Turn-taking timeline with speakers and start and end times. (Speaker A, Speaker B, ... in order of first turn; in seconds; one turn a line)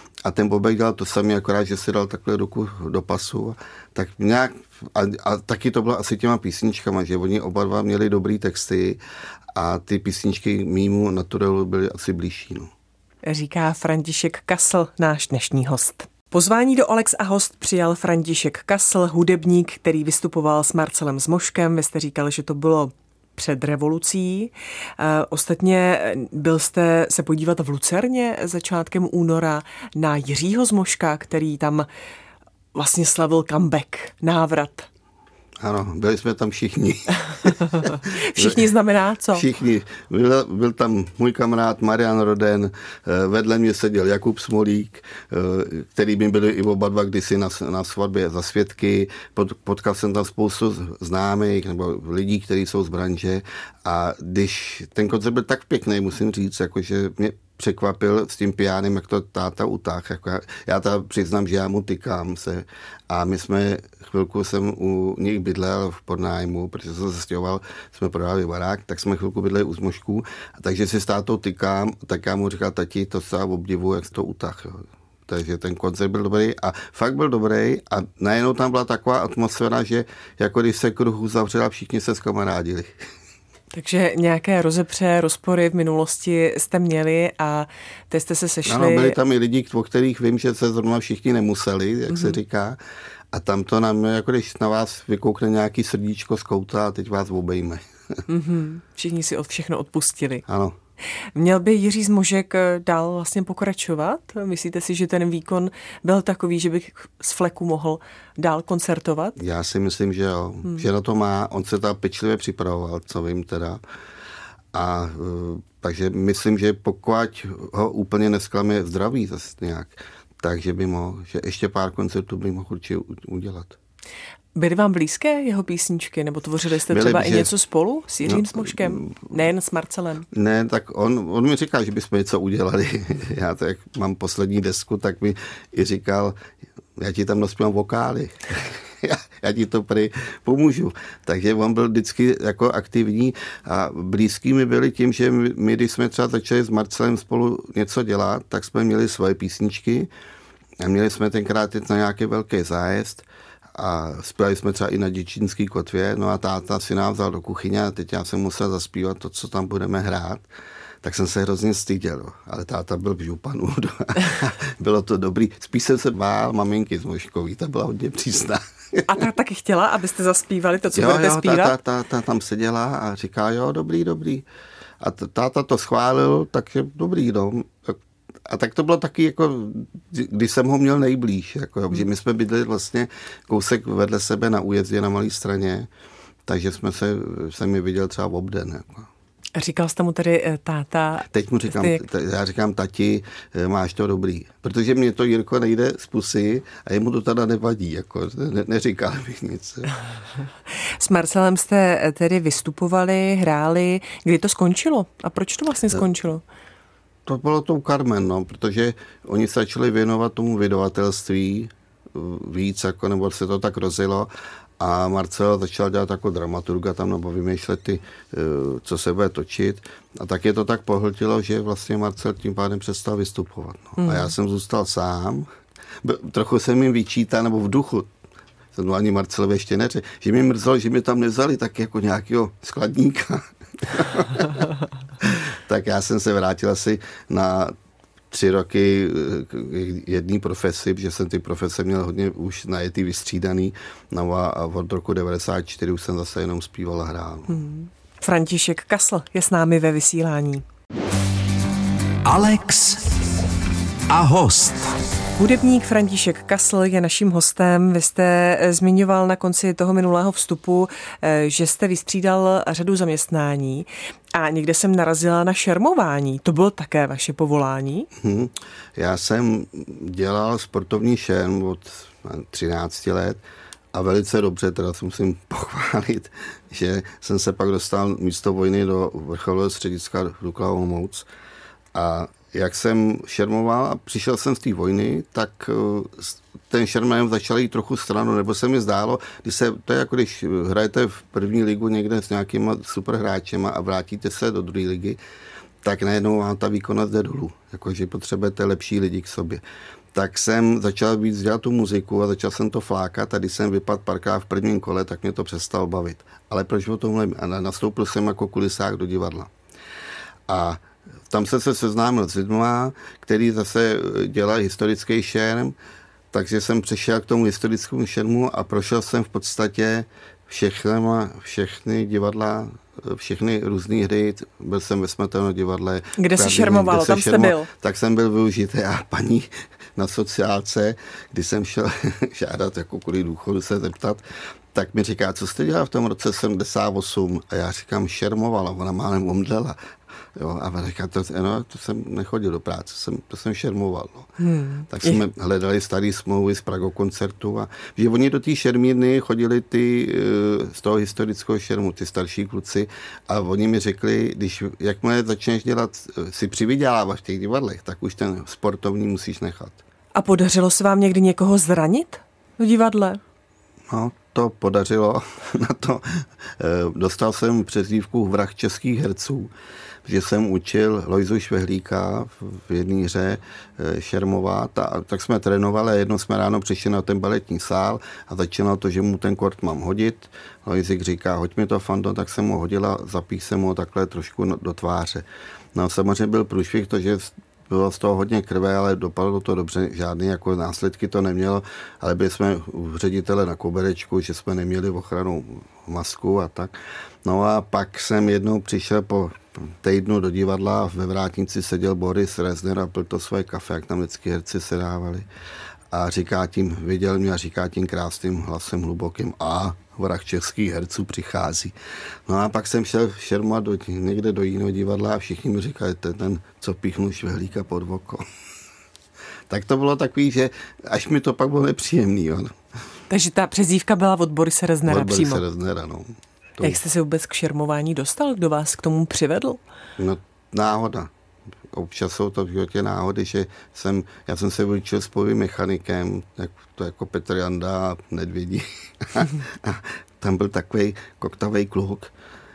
Speaker A: 0.2-9.0
Speaker A: 9.6-12.7
Speaker B: 13.3-31.9
Speaker B: 32.7-34.9
Speaker A: 35.6-38.7
Speaker B: 37.3-39.5
Speaker A: 39.3-83.0
Speaker B: 83.7-89.2
Speaker A: 88.7-92.8
Speaker A: 93.3-98.2
Speaker B: 98.3-100.5
Speaker A: 100.5-100.8
Speaker B: 101.3-109.4
Speaker A: 109.4-113.8
Speaker A: 114.7-123.8
Speaker B: 124.6-130.3
Speaker A: 126.9-127.5
Speaker A: 128.2-129.2
Speaker A: 130.3-136.4
Speaker A: 137.0-150.1
Speaker A: 150.8-160.5
Speaker A: 161.0-169.2
Speaker B: 169.1-171.8
Speaker A: 170.9-174.4
Speaker A: 175.0-185.9
Speaker A: 186.5-189.1
Speaker B: 189.6-192.1
Speaker A: 191.3-199.9
Speaker B: 201.0-206.4
Speaker A: 207.3-225.5
Speaker B: 224.0-224.3
Speaker A: 226.0-228.1
Speaker A: 228.7-234.7
Speaker A: 235.2-237.7
Speaker A: 238.3-247.7
Speaker B: 247.5-250.6
Speaker C: 252.2-253.4
Speaker C: 254.1-255.0
Speaker B: 255.4-268.1
Speaker A: 268.2-273.4
Speaker A: 273.9-281.3
Speaker A: 281.9-295.2
Speaker A: 295.8-299.6
Speaker A: 300.1-309.5
Speaker A: 310.5-315.8
Speaker A: 316.3-334.2
Speaker B: 326.2-327.7
Speaker A: 334.7-339.8
Speaker A: 340.4-344.3
Speaker B: 344.4-345.2
Speaker A: 344.9-359.8
Speaker B: 360.1-363.2
Speaker A: 363.9-369.5
Speaker A: 370.1-405.3
Speaker A: 405.9-411.7
Speaker A: 412.3-418.2
Speaker A: 419.5-422.6
Speaker B: 423.1-425.4
Speaker A: 424.9-426.8
Speaker B: 426.6-429.6
Speaker A: 430.0-431.1
Speaker A: 431.7-442.1